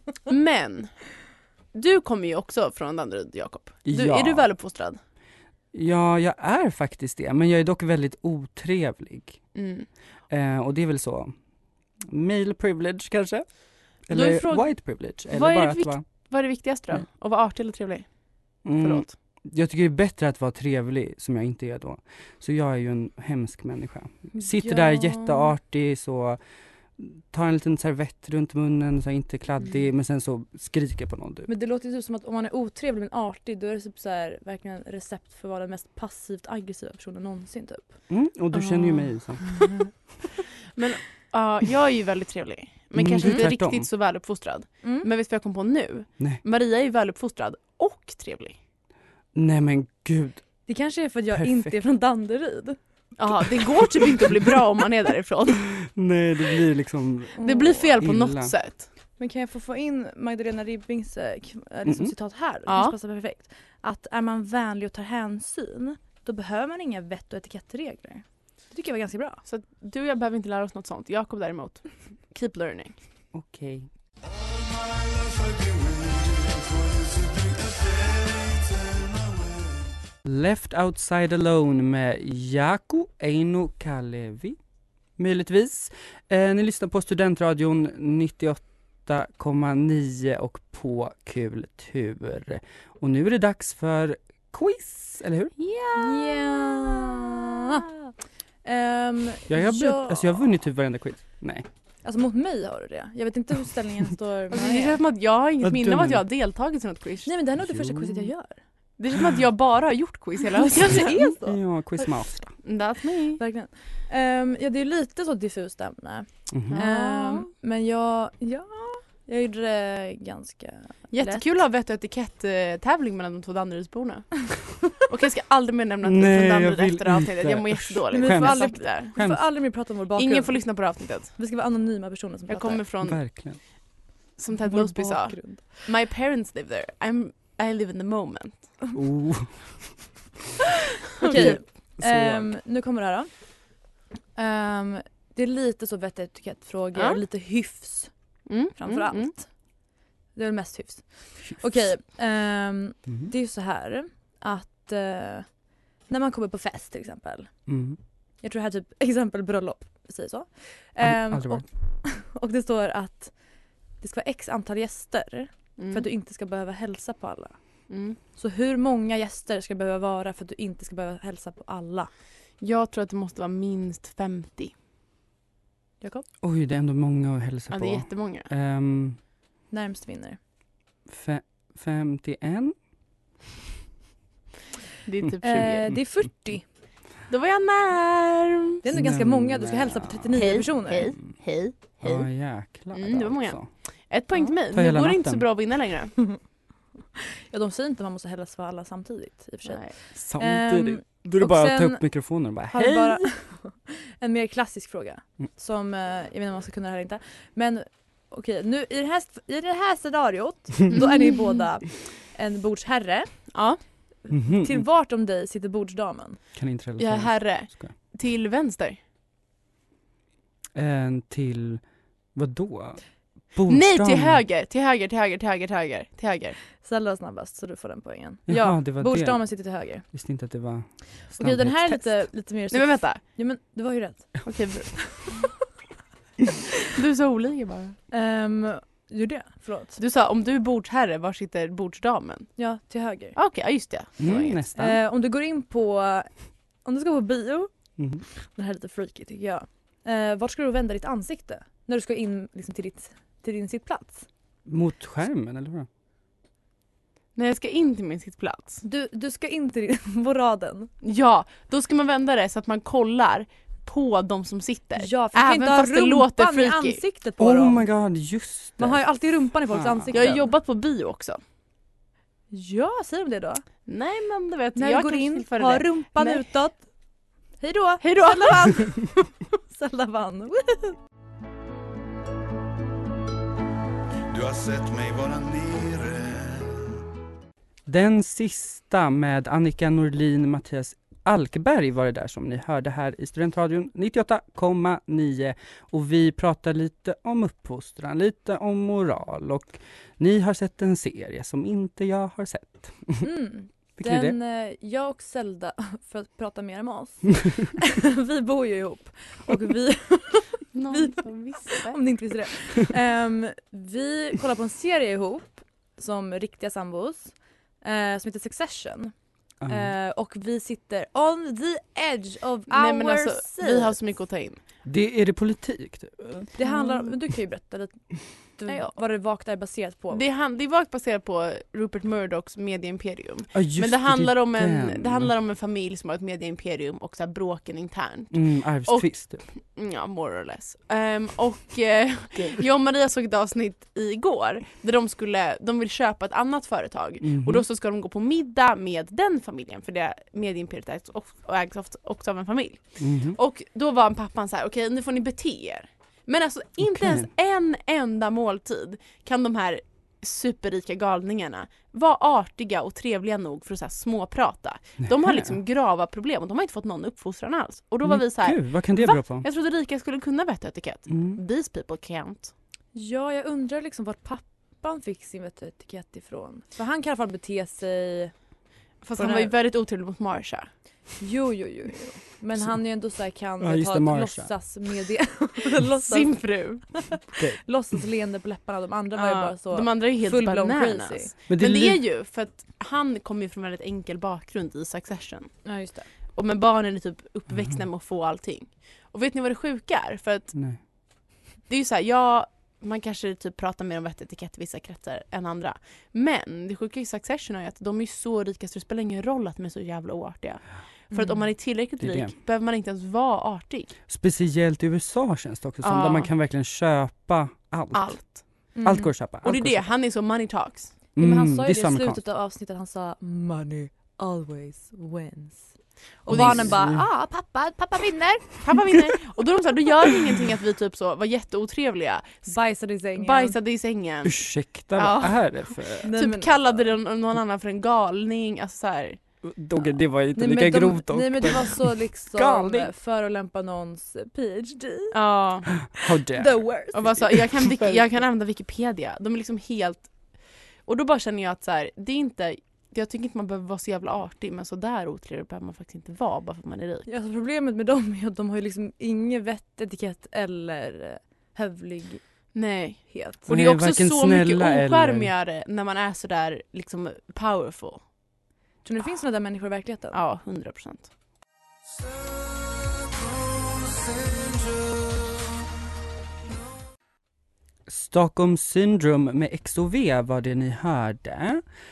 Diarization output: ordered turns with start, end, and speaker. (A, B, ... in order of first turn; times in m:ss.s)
0:00.3-0:01.0 A
0:01.7-0:05.0 A
0:03.8-0:04.5 B
0:05.7-0:09.4 B
0:09.5-0:09.9 A
0:10.3-0:11.4 B
0:12.0-0:13.5 B
0:14.0-0:16.0 B
0:14.1-0:18.1 A
0:18.6-0:19.1 A
0:18.6-0:26.4 B
0:24.3-0:25.5 C
0:27.0-0:31.5 B
0:31.5-0:38.0 C
0:38.1-0:39.6 B
0:39.4-0:39.8 C
0:40.7-0:48.6 A
0:42.9-0:43.9 B
0:49.3-0:50.5 B
0:50.7-0:52.8 C
0:51.3-0:51.8 B
0:53.2-0:55.7 A
0:55.8-0:57.4 B
0:57.4-0:57.8 C
0:57.4-0:58.9 A
0:58.0-0:58.5 B
0:59.2-1:09.4 C
1:01.8-1:02.1 B
1:02.7-1:02.9 A
1:09.4-1:13.0 A
1:13.3-1:13.9 B
1:14.3-1:19.9 D
1:20.2-1:24.6 B
1:25.2-1:35.5 B
1:35.6-1:37.5 A
1:36.0-1:37.8 C
1:38.6-1:40.4 C
1:39.5-1:41.7 B
1:42.0-1:45.0 C
1:44.5-1:47.3 A
1:45.6-1:46.2 B
1:47.2-1:48.6 C
1:47.6-1:48.3 B
1:49.0-1:51.2 A
1:50.6-1:51.6 C
1:51.0-1:52.5 B
1:52.6-1:53.4 A
1:53.4-2:01.4 C
1:56.5-1:56.8 B
1:56.7-1:57.5 A
2:01.1-2:09.2 A
2:06.0-2:09.4 B
2:08.1-2:12.8 C
2:10.2-2:11.4 A
2:12.5-2:13.2 A
2:13.0-2:13.6 B
2:14.4-2:18.8 A
2:14.6-2:15.8 C
2:18.9-2:19.9 B
2:21.2-2:23.8 C
2:21.3-2:21.6 A
2:21.3-2:22.5 B
2:24.3-2:28.1 C
2:26.9-2:27.2 A
2:28.5-2:29.3 A
2:28.7-2:29.5 C
2:30.3-2:35.5 C
2:36.1-2:37.5 C
2:37.7-2:38.0 B
2:38.4-2:43.4 C
2:41.0-2:41.7 B
2:44.0-2:47.6 C
2:45.8-2:46.0 A
2:47.9-2:48.2 A
2:48.3-2:52.1 C
2:52.6-2:54.7 A
2:56.0-2:56.2 C
2:56.4-2:59.2 B
2:57.7-2:58.5 A
2:59.7-3:00.4 C
3:01.1-3:02.7 B
3:05.0-3:06.0 A
3:05.4-3:06.6 C
3:07.3-3:08.8 A
3:08.8-3:11.1 C
3:08.9-3:10.4 B
3:10.3-3:12.3 A
3:12.0-3:13.7 B
3:12.9-3:16.2 A
3:14.7-3:15.5 B
3:17.2-3:33.6 C
3:19.6-3:19.9 A
3:20.1-3:23.3 B
3:30.9-3:31.6 A
3:33.5-3:33.8 A
3:34.3-3:36.4 C
3:34.3-3:34.8 B
3:36.5-3:37.9 B
3:37.0-3:39.0 A
3:40.7-3:41.8 B
3:42.3-3:44.4 B
3:43.7-3:46.6 A
3:46.8-3:50.0 C
3:48.5-3:52.2 B
3:51.3-3:54.6 C
3:52.7-3:53.2 A
3:54.4-3:55.3 A
3:56.9-3:58.0 A
3:58.1-4:00.0 C
4:00.0-4:02.6 A
4:02.6-4:03.4 C
4:03.3-4:04.6 A
4:04.2-4:05.0 B
4:04.7-4:07.7 C
4:08.0-4:08.2 B
4:08.3-4:14.2 C
4:14.6-4:15.9 B
4:17.4-4:18.8 A
4:18.8-4:20.9 C
4:21.0-4:27.0 A
4:25.0-4:27.8 C
4:27.4-4:30.4 B
4:28.8-4:30.5 C
4:30.1-4:31.4 A
4:32.5-4:33.6 C
4:33.9-4:36.5 A
4:34.8-4:36.8 C
4:37.6-4:40.9 C
4:38.0-4:39.0 A
4:44.3-4:47.0 D
4:47.9-5:03.3 B
5:03.2-5:11.2 C
5:04.0-5:04.4 B
5:10.7-5:12.1 A
5:11.8-5:19.1 C
5:19.6-5:19.9 B
5:19.6-5:23.9 C
5:22.7-5:24.6 A
5:24.8-5:26.6 B
5:26.6-5:30.2 C
5:28.7-5:29.0 A
5:30.1-6:12.5 A
5:33.5-5:35.3 B
5:38.3-5:39.4 B
5:47.2-5:47.6 B
5:53.0-5:53.4 B
5:56.9-5:57.3 B
6:05.0-6:05.6 B
6:08.0-6:09.4 B
6:11.1-6:11.4 B
6:12.9-6:18.3 C
6:19.0-6:20.7 A
6:19.2-6:19.5 C
6:21.2-6:31.3 C
6:23.6-6:24.5 B
6:26.0-6:27.0 A
6:29.1-6:35.6 A
6:31.5-6:32.0 B
6:35.6-6:36.1 C
6:36.3-6:40.5 A
6:37.5-6:37.8 B
6:40.5-6:40.8 B
6:41.7-6:54.0 A
6:51.1-6:51.5 C
6:52.0-6:52.3 B
6:54.1-6:59.9 B
6:55.8-6:56.3 A
6:57.9-7:01.0 A
6:58.7-6:59.1 C
7:01.2-7:02.2 B
7:01.2-7:08.6 C
7:06.3-7:07.1 B
7:06.3-7:06.7 A
7:08.6-7:12.6 A
7:12.5-7:13.6 C
7:13.1-7:19.2 A
7:14.2-7:16.1 B
7:16.0-7:16.5 C
7:19.4-7:22.9 B
7:20.3-7:25.1 C
7:25.1-7:25.8 A
7:25.8-7:27.9 B
7:26.3-7:27.3 C
7:26.9-7:37.1 A
7:37.1-7:42.2 C
7:42.5-7:48.0 A
7:43.1-7:43.5 C
7:43.5-7:45.3 B
7:48.8-7:50.2 C
7:50.1-7:51.1 A
7:52.1-7:55.4 D
7:57.9-8:01.6 B